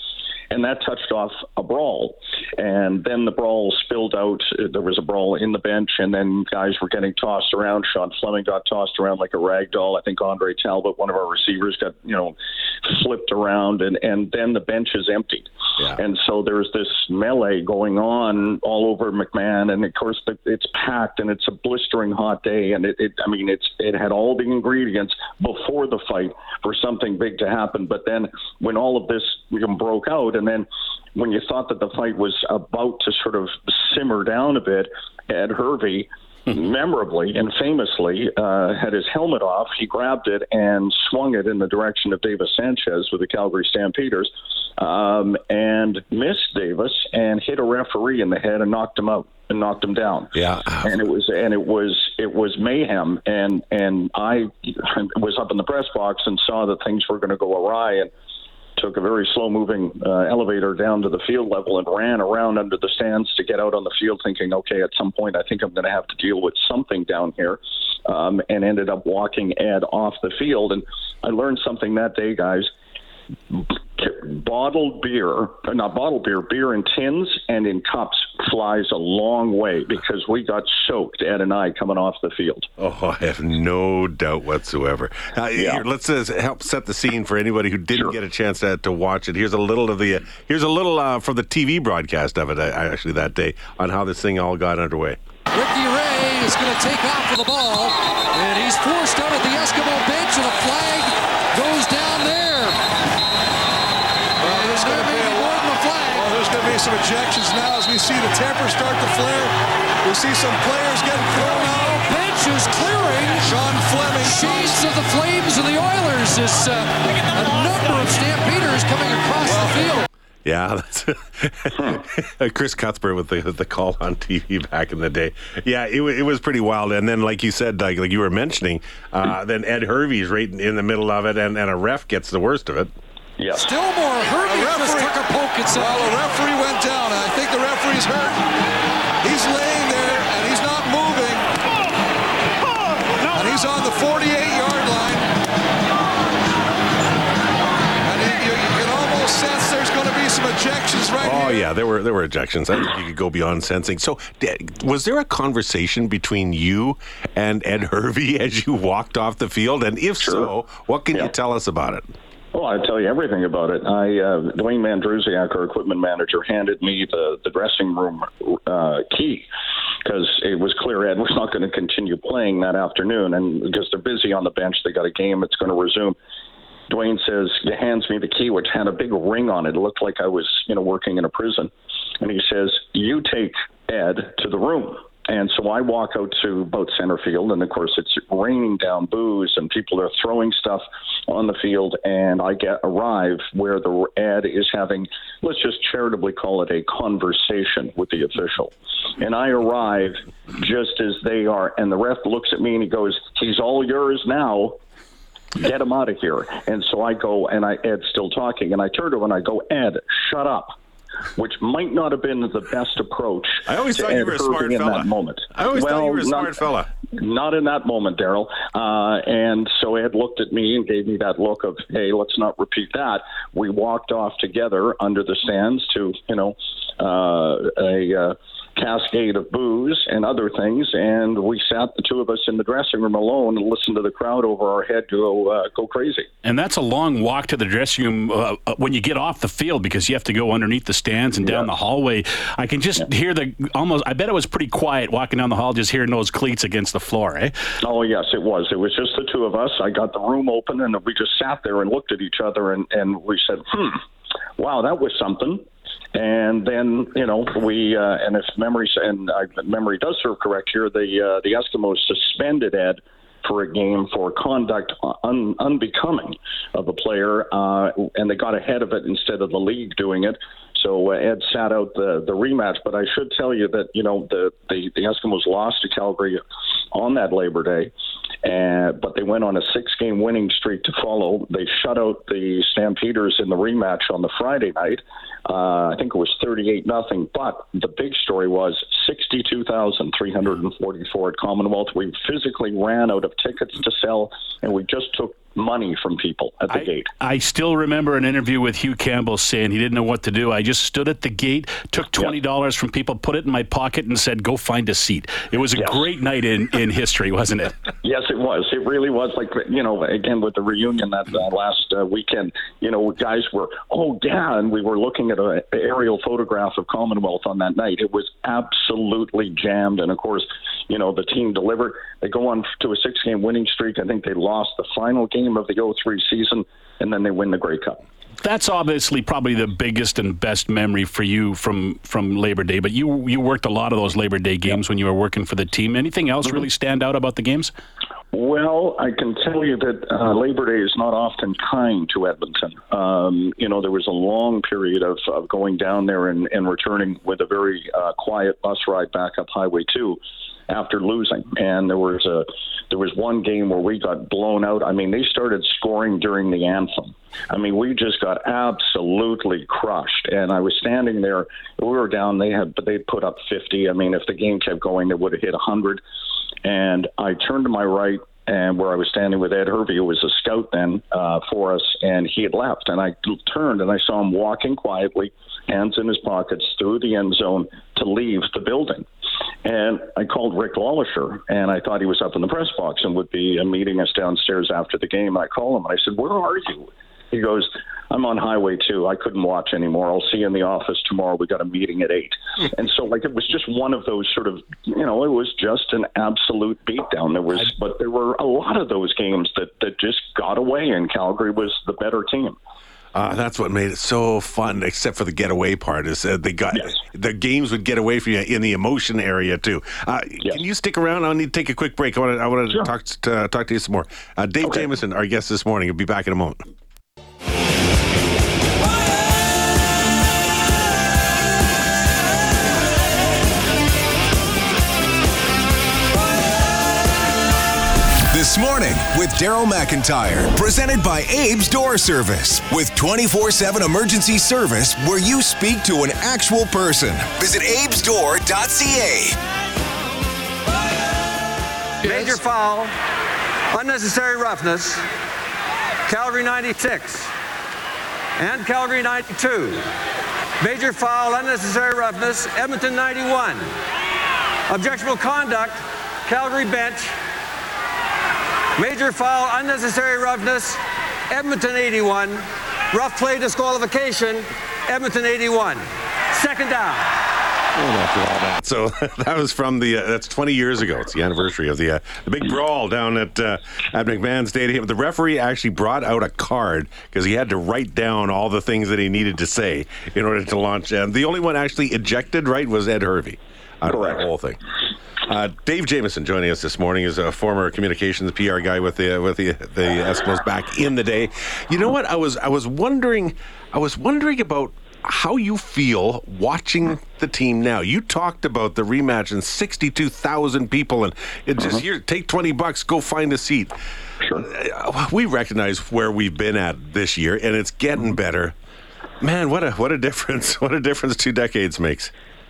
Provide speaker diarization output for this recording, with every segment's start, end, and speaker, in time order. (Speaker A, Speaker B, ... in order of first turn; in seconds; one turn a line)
Speaker A: 0.5-58.1
Speaker B: 50.3-50.9
Speaker A: 58.8-72.7
Speaker A: 73.5-82.7
Speaker B: 82.8-95.2
Speaker A: 85.5-85.8
Speaker C: 95.5-102.8
Speaker D: 104.4-112.1
Speaker C: 104.4-106.4
Speaker C: 111.4-113.6
Speaker D: 113.4-114.8
Speaker C: 114.1-120.1
Speaker D: 119.4-120.0
Speaker B: 120.4-132.9
Speaker A: 133.4-133.8
Speaker C: 133.5-136.2
Speaker D: 134.4-138.4
Speaker D: 139.2-141.5
Speaker D: 143.3-145.3
Speaker D: 148.0-151.6
Speaker B: 151.2-162.1
Speaker A: 160.2-160.5
Speaker A: 162.5-169.5
Speaker A: 170.0-176.2
Speaker A: 176.9-204.8
Speaker A: 205.6-210.7
Speaker A: 211.3-216.5
Speaker B: 213.7-216.9
Speaker A: 217.1-236.3
Speaker E: 236.4-247.5
Speaker A: 241.4-241.7
Speaker A: 247.8-254.0
Speaker A: 254.6-255.6
Speaker A: 256.1-276.4
Speaker A: 276.9-277.9
Speaker A: 278.4-297.1
Speaker E: 296.7-307.9
Speaker A: 305.8-306.0
Speaker A: 308.0-328.0
Speaker E: 328.4-337.7
Speaker A: 338.3-366.0
Speaker A: 366.6-379.0
Speaker A: 379.6-402.6
Speaker B: 403.1-416.6
Speaker F: 428.3-439.4
Speaker G: 442.0-442.9
Speaker G: 443.7-445.0
Speaker G: 446.1-447.3
Speaker G: 448.4-449.8
Speaker G: 450.6-453.7
Speaker G: 454.7-457.1
Speaker G: 458.8-467.1
Speaker B: 467.7-484.6
Speaker A: 483.9-484.2
Speaker B: 485.2-503.7
Speaker B: 504.3-508.5
Speaker B: 509.2-512.1